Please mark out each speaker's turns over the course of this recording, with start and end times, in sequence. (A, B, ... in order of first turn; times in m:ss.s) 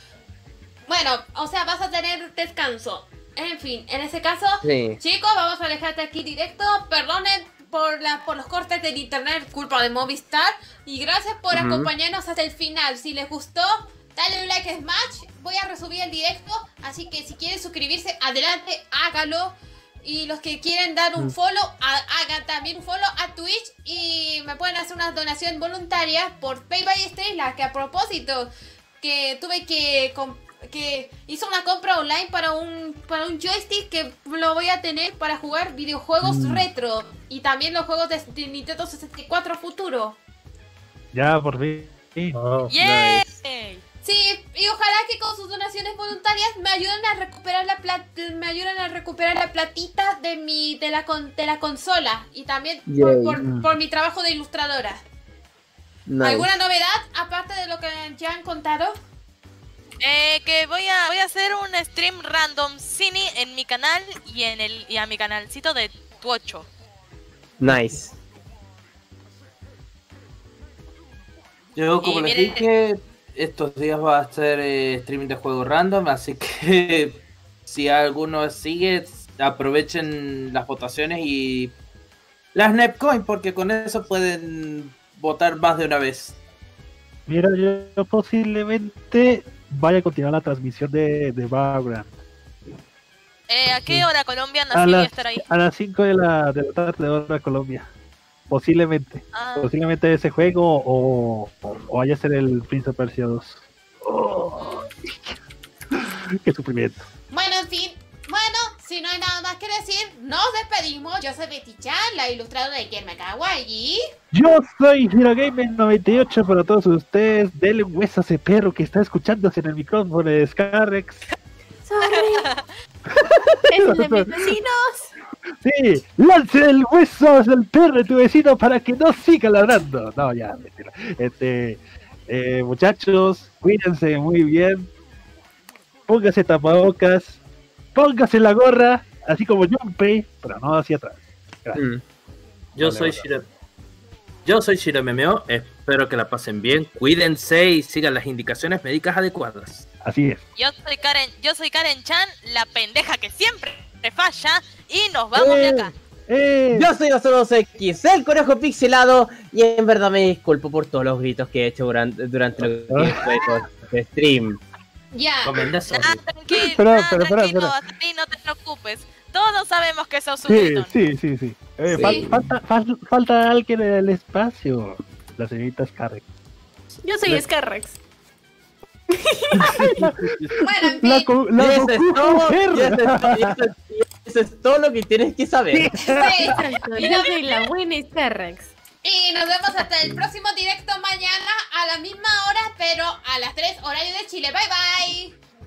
0:00.9-0:40.2 A
0:04.6-0:05.0 B
0:11.5-0:11.9 B
0:36.2-0:36.6 C
0:41.1-0:42.4 C
0:42.3-0:42.7 D
0:42.7-0:43.8 E
0:42.8-0:43.4 B
0:44.0-0:55.0 A
0:52.9-0:53.4 B
0:53.4-0:53.7 C
0:56.1-0:56.5 B
0:56.2-0:59.0 A
1:00.0-1:06.7 E
1:07.6-1:08.1 B
1:11.8-1:21.8 D
1:12.0-1:12.7 E
1:22.5-1:26.4 D
1:27.3-1:32.1 C
1:33.5-1:35.4 E
1:34.7-1:37.9 C
1:38.5-1:45.4 C
1:39.3-1:39.7 E
1:44.6-1:44.9 E
1:45.9-1:47.0 C
1:47.3-1:54.0 A
1:54.3-2:01.2 C
2:01.8-2:02.5 F
2:03.1-2:04.5 C
2:03.7-2:05.1 F
2:05.6-2:14.9 C
2:16.1-2:17.4 C
2:17.9-2:21.8 C
2:21.7-2:22.0 B
2:22.7-2:23.4 D
2:22.8-2:23.3 C
2:24.4-2:29.8 D
2:30.0-2:30.4 C
2:30.6-2:35.9 E
2:35.3-2:36.9 C
2:36.7-2:44.6 B
2:42.9-2:43.6 C
2:45.1-2:46.7 A
2:45.4-2:46.2 D
2:46.0-2:50.9 E
2:46.7-2:47.8 C
2:50.5-2:56.2 C
2:51.9-2:52.3 B
2:51.9-2:52.3 A
2:57.0-2:58.0 F
2:59.1-2:59.9 F
2:59.6-3:03.6 C
3:00.2-3:00.5 D
3:00.6-3:01.3 A
3:01.6-3:05.9 B
3:05.7-3:06.7 C
3:06.0-3:07.6 A
3:06.5-3:08.7 F
3:09.0-3:15.4 A